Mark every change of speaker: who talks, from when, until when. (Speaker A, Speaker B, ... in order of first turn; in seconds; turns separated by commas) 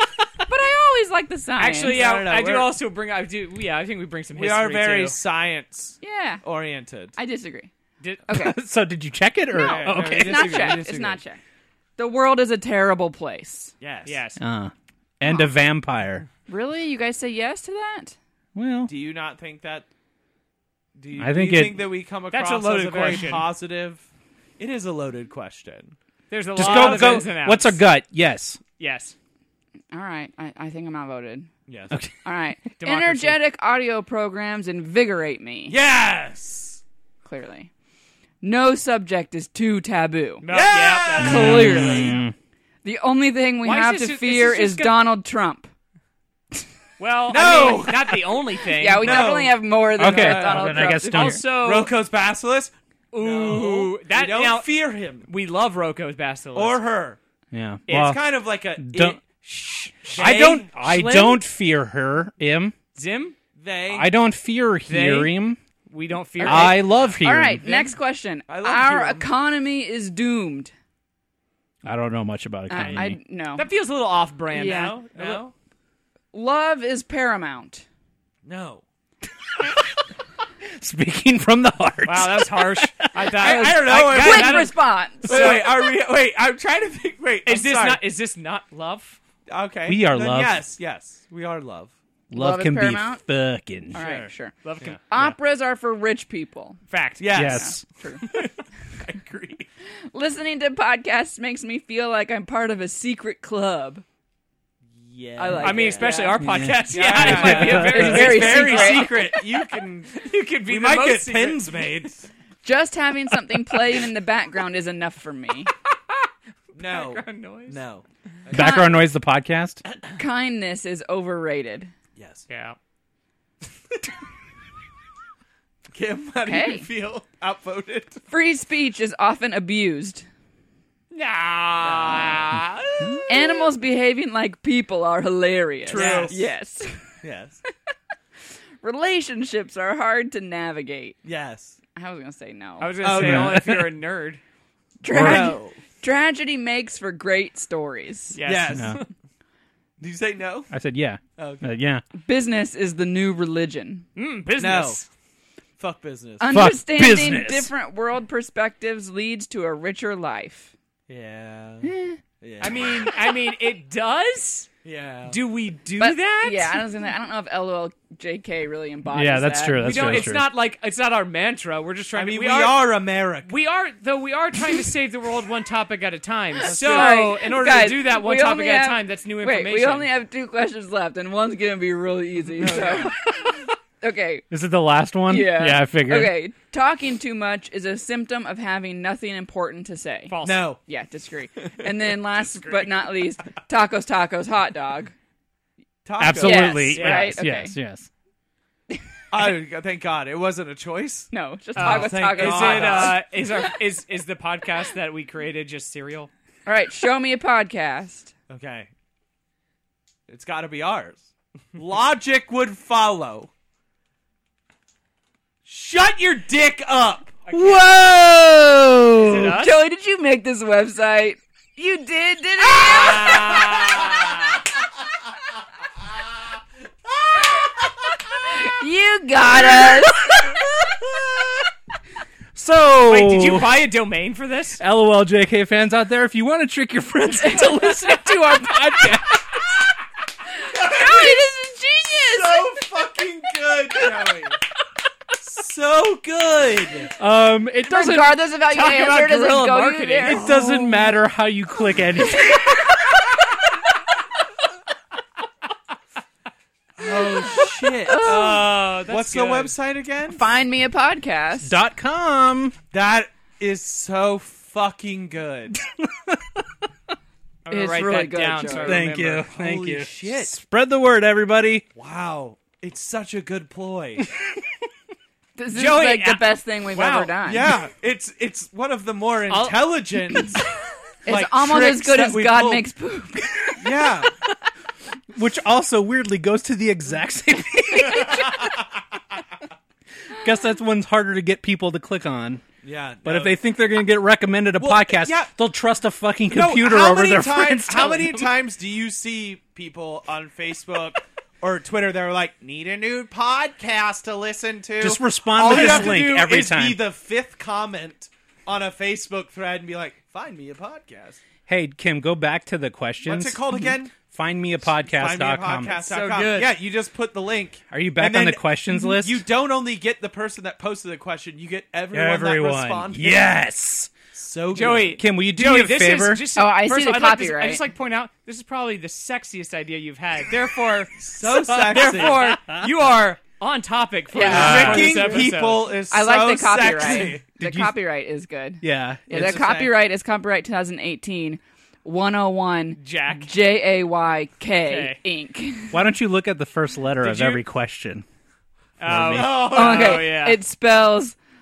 Speaker A: 0.5-2.0, Speaker B: 1.6-5.2, Speaker C: 1.9-2.7, Speaker C: 4.4-7.2, Speaker A: 6.0-6.4, Speaker A: 7.2-7.7, Speaker A: 8.3-8.6, Speaker D: 8.3-10.6, Speaker A: 9.5-11.4, Speaker C: 9.6-11.2, Speaker A: 12.0-13.7, Speaker C: 13.8-14.2, Speaker B: 14.1-14.4, Speaker D: 14.4-16.3, Speaker A: 15.2-15.5, Speaker A: 16.5-18.2, Speaker D: 18.6-18.9, Speaker C: 18.9-19.9, Speaker C: 21.0-24.1, Speaker D: 21.2-21.9, Speaker B: 22.3-23.5, Speaker C: 24.6-26.0, Speaker B: 26.3-27.8, Speaker D: 26.6-28.6, Speaker C: 26.6-27.2, Speaker B: 28.8-29.1, Speaker A: 29.9-31.5, Speaker C: 31.7-32.0, Speaker A: 32.2-35.8, Speaker B: 32.8-33.4, Speaker C: 35.7-36.8, Speaker A: 37.2-37.7, Speaker A: 38.4-40.5, Speaker B: 40.4-42.2, Speaker C: 40.5-42.2, Speaker A: 41.2-42.2, Speaker D: 41.2-42.3, Speaker A: 42.8-45.7, Speaker B: 43.6-45.1, Speaker B: 47.0-49.4, Speaker C: 47.3-48.2, Speaker A: 47.3-48.0, Speaker A: 48.8-51.4, Speaker C: 49.0-50.9, Speaker D: 50.0-51.5, Speaker B: 50.8-52.0, Speaker C: 51.5-55.3, Speaker B: 53.1-56.8, Speaker C: 56.5-57.2, Speaker D: 57.5-58.2, Speaker C: 57.9-60.7, Speaker D: 58.8-59.2, Speaker D: 60.1-62.8, Speaker B: 60.2-61.4, Speaker B: 63.0-63.4, Speaker C: 63.6-64.1, Speaker D: 63.9-65.6, Speaker B: 64.9-65.3, Speaker B: 65.9-67.0, Speaker A: 66.4-70.7, Speaker D: 66.4-67.6, Speaker C: 66.5-67.9, Speaker C: 68.5-69.3, Speaker D: 71.8-73.2, Speaker A: 72.7-73.7, Speaker B: 73.6-75.5, Speaker A: 74.5-75.0, Speaker C: 75.1-75.5, Speaker A: 76.3-77.8, Speaker C: 78.4-78.8, Speaker D: 80.7-83.3, Speaker B: 82.0-85.7, Speaker C: 83.3-88.0, Speaker A: 83.6-85.7, Speaker B: 87.5-89.2, Speaker C: 89.5-91.9, Speaker D: 89.9-90.6, Speaker D: 92.3-94.0, Speaker A: 92.3-93.2, Speaker A: 93.9-94.5, Speaker C: 94.0-94.3, Speaker B: 94.0-95.3, Speaker A: 95.1-96.8, Speaker B: 96.9-97.4, Speaker C: 97.2-97.7, Speaker D: 97.3-97.8, Speaker A: 97.4-98.2, Speaker C: 99.0-99.7, Speaker A: 100.1-104.0, Speaker C: 105.0-106.1, Speaker A: 105.4-106.5, Speaker B: 105.6-109.4, Speaker D: 106.4-108.4, Speaker C: 106.9-112.3, Speaker A: 107.5-109.3, Speaker B: 110.1-111.9, Speaker A: 112.6-115.7, Speaker B: 116.8-117.8, Speaker C: 116.8-118.9, Speaker D: 118.5-119.8, Speaker A: 118.5-119.0, Speaker A: 120.2-121.9, Speaker C: 122.2-122.5, Speaker B: 122.5-122.8, Speaker C: 125.9-128.2, Speaker A: 126.5-126.9, Speaker A: 128.3-130.3, Speaker B: 131.1-133.6, Speaker C: 131.8-132.5, Speaker A: 133.3-136.9, Speaker B: 135.9-136.4, Speaker C: 135.9-136.5, Speaker C: 137.2-137.6, Speaker A: 138.8-141.2, Speaker C: 141.2-141.8, Speaker A: 141.9-143.0, Speaker B: 142.8-144.4, Speaker C: 143.0-143.8, Speaker D: 143.1-143.9, Speaker A: 145.0-148.4, Speaker D: 145.1-145.5, Speaker C: 145.1-145.8, Speaker B: 148.3-149.1, Speaker C: 148.4-149.0, Speaker D: 148.8-149.0, Speaker C: 150.0-150.7, Speaker D: 150.7-152.0, Speaker C: 151.4-151.7, Speaker A: 152.2-154.1, Speaker B: 154.2-155.1, Speaker C: 154.6-155.0, Speaker C: 155.8-156.7, Speaker A: 156.4-160.7, Speaker D: 156.5-157.7, Speaker C: 161.1-161.9, Speaker D: 161.8-162.2, Speaker C: 162.4-162.9, Speaker B: 162.6-164.7, Speaker C: 164.8-165.4, Speaker B: 165.3-166.8, Speaker A: 166.0-170.3, Speaker D: 169.1-170.5, Speaker B: 169.8-172.9, Speaker C: 172.1-173.5, Speaker B: 173.5-180.1, Speaker C: 176.6-177.3, Speaker A: 176.7-183.3, Speaker C: 182.6-183.1, Speaker A: 184.0-184.4, Speaker D: 184.5-186.3, Speaker A: 185.3-195.1, Speaker B: 190.3-190.7, Speaker C: 190.4-190.8, Speaker C: 196.1-197.0, Speaker D: 196.2-198.1, Speaker A: 196.4-197.7, Speaker B: 196.9-197.4, Speaker C: 199.3-203.2, Speaker A: 201.3-203.2, Speaker B: 201.8-206.3, Speaker A: 206.7-208.3, Speaker C: 208.5-208.9, Speaker C: 210.3-213.5, Speaker C: 215.7-217.6, Speaker D: 217.5-219.5, Speaker B: 219.2-219.8, Speaker A: 219.2-223.6, Speaker B: 222.8-224.6, Speaker C: 223.5-223.8, Speaker A: 228.5-230.5, Speaker D: 232.5-233.8, Speaker B: 233.1-234.8, Speaker D: 234.8-239.4, Speaker A: 237.3-239.3, Speaker A: 240.7-242.7, Speaker C: 240.7-241.5, Speaker C: 242.3-244.6, Speaker C: 245.4-247.1, Speaker D: 247.2-248.4, Speaker A: 247.8-250.4, Speaker B: 248.7-250.5, Speaker D: 250.2-253.2, Speaker C: 250.5-251.0, Speaker C: 257.0-260.4, Speaker A: 258.1-258.7, Speaker B: 258.2-259.8, Speaker A: 260.3-261.7, Speaker D: 261.6-262.8, Speaker C: 262.9-265.8, Speaker D: 265.8-266.7, Speaker B: 267.6-269.5, Speaker A: 267.7-269.0, Speaker D: 268.8-271.9, Speaker C: 269.3-270.5, Speaker C: 272.0-274.3, Speaker A: 275.6-277.8, Speaker B: 275.7-277.3, Speaker C: 277.4-280.7, Speaker B: 279.5-279.9, Speaker A: 281.2-283.8, Speaker C: 281.3-282.9, Speaker C: 283.8-284.3, Speaker D: 285.3-288.8, Speaker C: 288.1-288.8, Speaker D: 290.3-292.6, Speaker C: 292.8-293.6, Speaker D: 293.2-298.5, Speaker C: 294.8-295.5, Speaker C: 296.5-311.4, Speaker D: 305.0-307.0, Speaker D: 311.7-316.0, Speaker C: 313.2-314.2, Speaker C: 315.0-323.5, Speaker B: 315.9-316.8, Speaker D: 317.9-319.4, Speaker D: 322.1-324.1, Speaker C: 324.3-325.2, Speaker B: 324.7-335.9, Speaker D: 325.0-326.4, Speaker A: 326.6-327.8, Speaker C: 331.2-332.4, Speaker D: 332.3-332.9, Speaker A: 334.3-335.4, Speaker D: 334.4-335.4, Speaker C: 334.4-337.4, Speaker A: 336.1-346.0, Speaker D: 337.6-338.0, Speaker D: 338.8-339.6, Speaker C: 339.3-339.9, Speaker B: 343.0-343.5, Speaker B: 344.9-345.2, Speaker D: 345.9-348.2, Speaker C: 347.2-347.6, Speaker B: 349.0-350.6, Speaker D: 349.0-350.0, Speaker A: 349.4-351.4, Speaker C: 349.6-350.2